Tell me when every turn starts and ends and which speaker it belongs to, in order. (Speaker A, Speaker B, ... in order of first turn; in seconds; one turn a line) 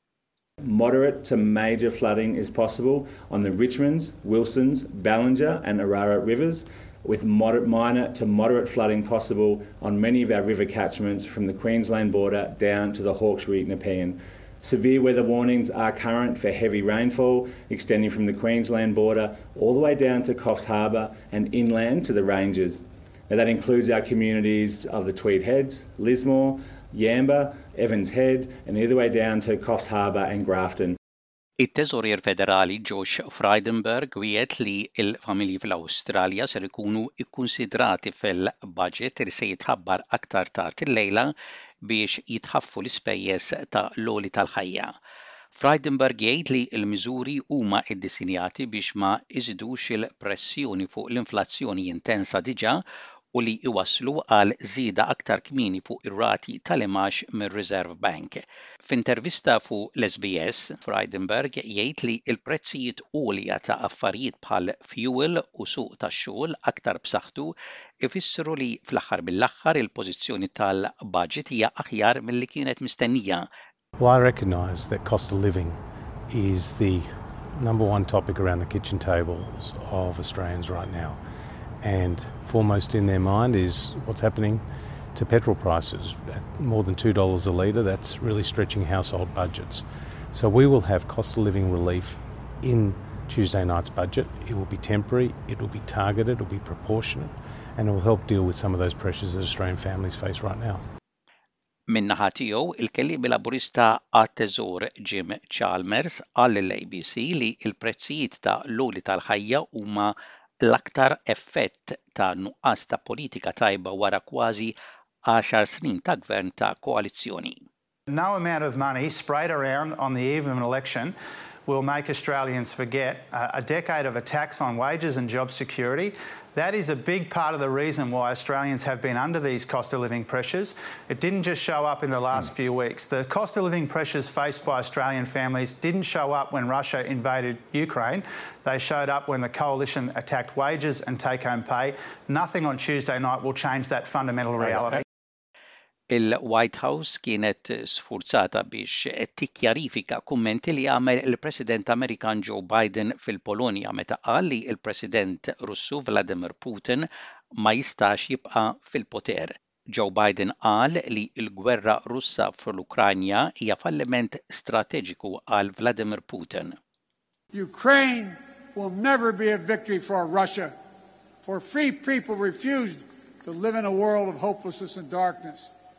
Speaker A: 0.6-30.9
Speaker B: 31.6-41.3
Speaker B: 41.9-44.9
Speaker B: 45.5-52.8
Speaker B: 53.3-73.5
Speaker C: 74.0-81.2
Speaker C: 81.8-100.8
Speaker B: 101.9-114.7
Speaker B: 115.3-117.6
Speaker D: 118.1-121.1
Speaker D: 121.7-145.0
Speaker B: 146.1-157.1
Speaker B: 157.6-166.7
Speaker E: 167.5-170.7
Speaker E: 171.4-175.7